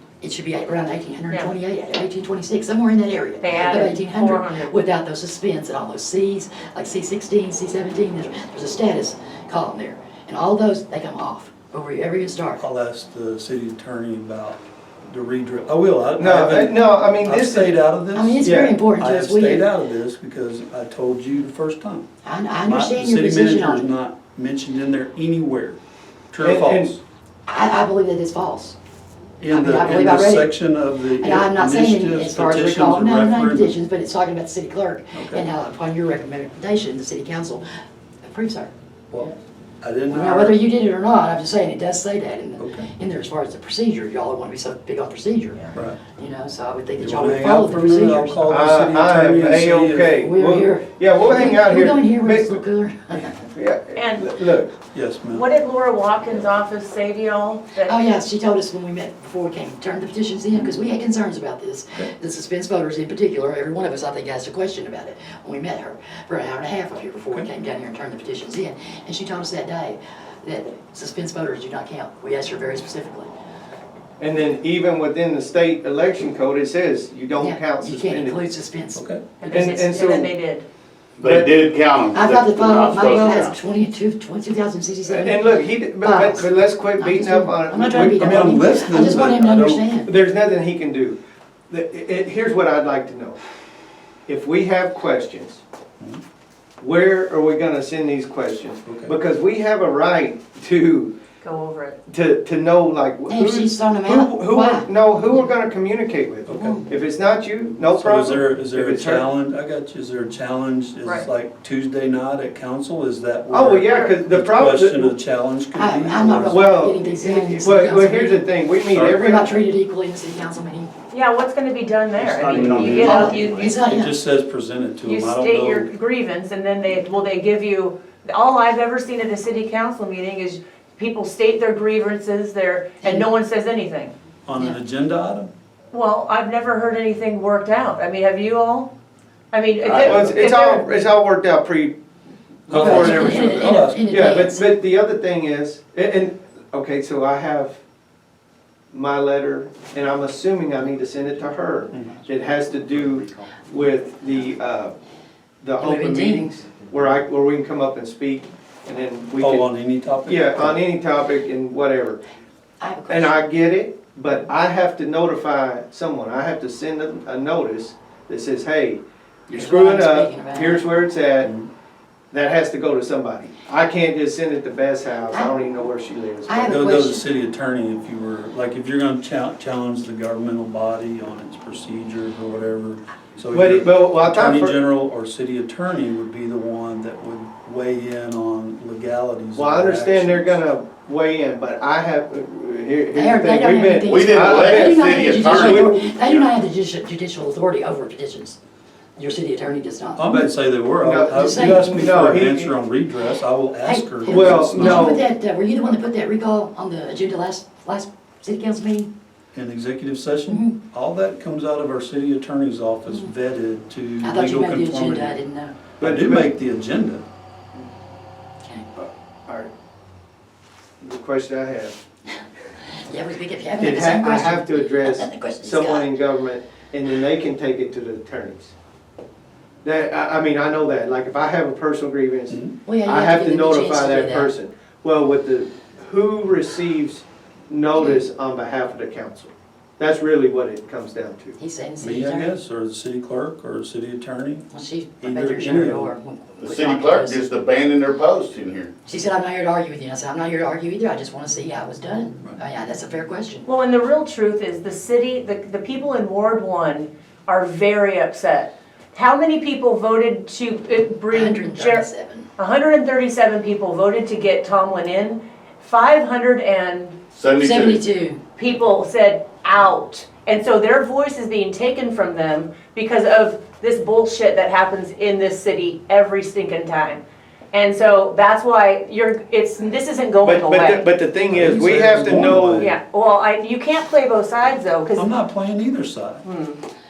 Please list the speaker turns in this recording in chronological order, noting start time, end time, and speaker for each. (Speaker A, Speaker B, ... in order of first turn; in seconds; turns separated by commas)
Speaker A: 0.2-12.6, Speaker B: 3.4-4.7, Speaker C: 12.6-22.1, Speaker D: 16.2-17.8, Speaker A: 18.1-19.7, Speaker D: 18.4-18.7, Speaker A: 22.2-23.9, Speaker C: 22.6-25.8, Speaker C: 26.3-27.0, Speaker D: 26.4-26.9, Speaker A: 27.5-28.8, Speaker C: 29.4-33.8, Speaker A: 29.4-30.5, Speaker A: 31.2-37.6, Speaker C: 35.1-35.4, Speaker A: 38.2-38.7, Speaker C: 39.1-40.6, Speaker A: 40.1-48.4, Speaker C: 42.6-42.9, Speaker C: 45.7-46.0, Speaker C: 47.0-50.2, Speaker D: 48.5-52.6, Speaker A: 50.2-53.4, Speaker D: 53.4-54.7, Speaker B: 53.9-54.3, Speaker C: 54.9-55.4, Speaker B: 55.3-58.0, Speaker A: 57.8-73.3, Speaker D: 74.2-78.4, Speaker A: 77.4-79.0, Speaker C: 78.9-79.2, Speaker B: 79.4-80.7, Speaker D: 79.5-80.3, Speaker E: 81.2-83.6, Speaker D: 81.2-81.5, Speaker A: 82.1-90.1, Speaker D: 85.1-88.6, Speaker C: 88.0-89.8, Speaker D: 90.0-91.2, Speaker D: 91.7-93.4, Speaker D: 94.3-95.6, Speaker D: 96.8-101.1, Speaker C: 98.8-99.1, Speaker B: 101.4-102.0, Speaker D: 102.1-109.3, Speaker A: 103.3-105.5, Speaker C: 106.5-106.9, Speaker A: 106.5-106.8, Speaker C: 107.9-116.6, Speaker D: 113.5-115.1, Speaker B: 113.9-114.2, Speaker A: 115.8-118.5, Speaker D: 116.5-119.6, Speaker A: 119.0-120.9, Speaker B: 121.1-123.8, Speaker C: 122.2-125.9, Speaker A: 123.0-124.1, Speaker B: 125.0-134.1, Speaker A: 133.0-133.3, Speaker C: 134.4-135.5, Speaker B: 135.9-138.9, Speaker B: 139.5-140.9, Speaker E: 139.8-140.4, Speaker D: 140.0-141.9, Speaker D: 142.7-147.8, Speaker C: 142.7-144.0, Speaker A: 142.7-144.6, Speaker D: 148.9-154.9, Speaker D: 155.6-159.7, Speaker A: 155.8-156.5, Speaker C: 159.4-160.8, Speaker D: 160.2-162.2, Speaker A: 162.8-163.4, Speaker D: 163.1-171.5, Speaker A: 169.5-170.8, Speaker C: 171.4-171.7, Speaker D: 172.3-176.8, Speaker A: 176.5-177.2, Speaker C: 176.7-190.6, Speaker D: 183.5-184.7, Speaker D: 189.6-196.1, Speaker A: 193.1-198.6, Speaker E: 194.0-196.4, Speaker A: 199.2-200.5, Speaker C: 200.2-205.2, Speaker D: 201.0-202.7, Speaker A: 201.3-202.0, Speaker A: 203.8-209.1, Speaker D: 204.3-205.2, Speaker C: 209.5-215.4, Speaker A: 210.5-210.8, Speaker A: 214.2-215.7, Speaker D: 216.0-216.5, Speaker C: 216.0-217.2, Speaker D: 219.0-219.7, Speaker D: 221.0-222.0, Speaker A: 222.9-226.1, Speaker D: 223.8-228.7, Speaker D: 229.8-241.6, Speaker C: 232.5-232.8, Speaker A: 232.8-234.5, Speaker A: 237.9-238.2, Speaker A: 241.6-242.5, Speaker C: 242.0-244.7, Speaker A: 244.7-247.4, Speaker C: 245.2-246.1, Speaker E: 246.6-248.9, Speaker A: 249.1-253.7, Speaker B: 253.7-267.2, Speaker A: 261.3-262.5, Speaker E: 267.3-268.0, Speaker A: 267.6-268.4, Speaker B: 268.6-281.1, Speaker D: 280.4-282.9, Speaker C: 281.5-282.9, Speaker B: 282.8-285.3, Speaker C: 285.1-286.4, Speaker B: 286.4-286.8